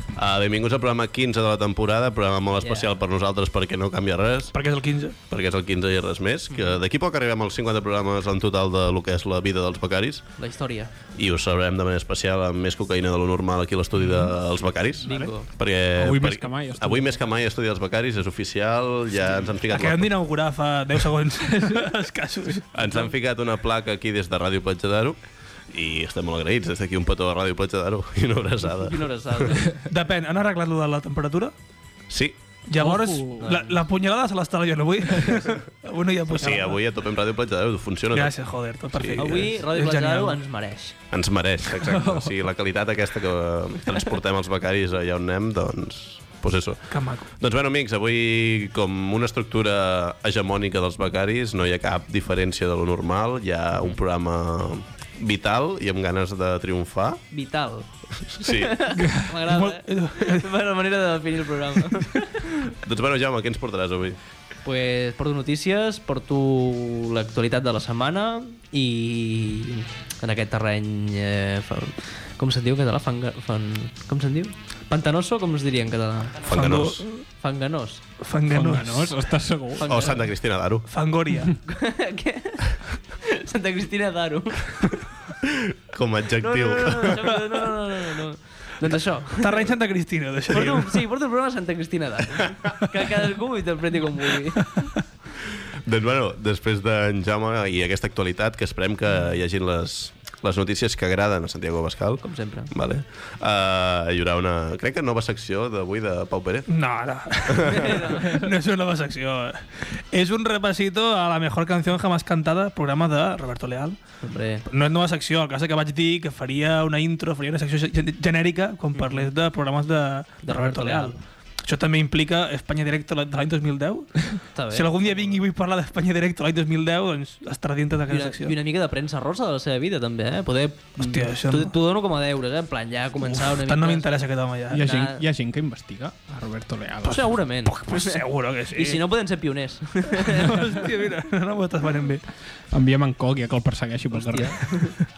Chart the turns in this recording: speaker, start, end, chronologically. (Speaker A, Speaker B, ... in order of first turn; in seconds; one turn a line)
Speaker A: 0.1-4.5
Speaker B: 2.6-2.9
Speaker C: 4.5-5.1
Speaker A: 5.3-10.3
Speaker B: 10.4-10.9
Speaker A: 11.1-20.2
Speaker B: 15.0-15.5
Speaker D: 15.9-17.2
Speaker C: 19.7-23.1
Speaker A: 22.7-25.2
Speaker A: 25.7-29.6
Speaker B: 28.8-29.7
Speaker C: 29.9-31.5
Speaker A: 32.1-32.4
Speaker C: 32.7-36.8
Speaker D: 32.8-33.7
Speaker B: 33.4-33.7
Speaker A: 36.3-39.5
Speaker C: 38.1-40.4
Speaker B: 39.1-41.0
Speaker A: 41.1-57.2
Speaker D: 41.8-42.3
Speaker C: 46.9-47.2
Speaker B: 57.3-57.9
Speaker A: 58.2-58.9
Speaker B: 58.4-62.7
Speaker D: 59.0-59.2
Speaker C: 59.5-60.5
Speaker A: 62.8-64.2
Speaker B: 64.6-76.5
Speaker A: 76.4-77.1
Speaker C: 76.5-77.2
Speaker B: 77.4-78.0
Speaker C: 78.2-79.2
Speaker D: 78.5-79.8
Speaker B: 79.8-80.2
Speaker A: 79.8-80.9
Speaker C: 80.9-81.6
Speaker B: 81.6-84.9
Speaker A: 85.4-87.6
Speaker B: 86.4-89.7
Speaker C: 89.4-91.0
Speaker B: 90.5-94.9
Speaker A: 95.8-106.7
Speaker B: 102.2-102.7
Speaker C: 106.7-114.0
Speaker A: 107.5-107.9
Speaker B: 107.7-108.3
Speaker B: 114.2-114.7
Speaker C: 114.7-128.5
Speaker B: 120.4-121.2
Speaker B: 124.5-125.4
Speaker B: 128.1-135.2
Speaker C: 131.0-131.7
Speaker C: 133.2-134.8
Speaker D: 134.7-137.3
Speaker B: 137.1-140.6
Speaker C: 137.1-139.1
Speaker C: 140.1-142.2
Speaker D: 142.7-144.8
Speaker B: 144.1-145.0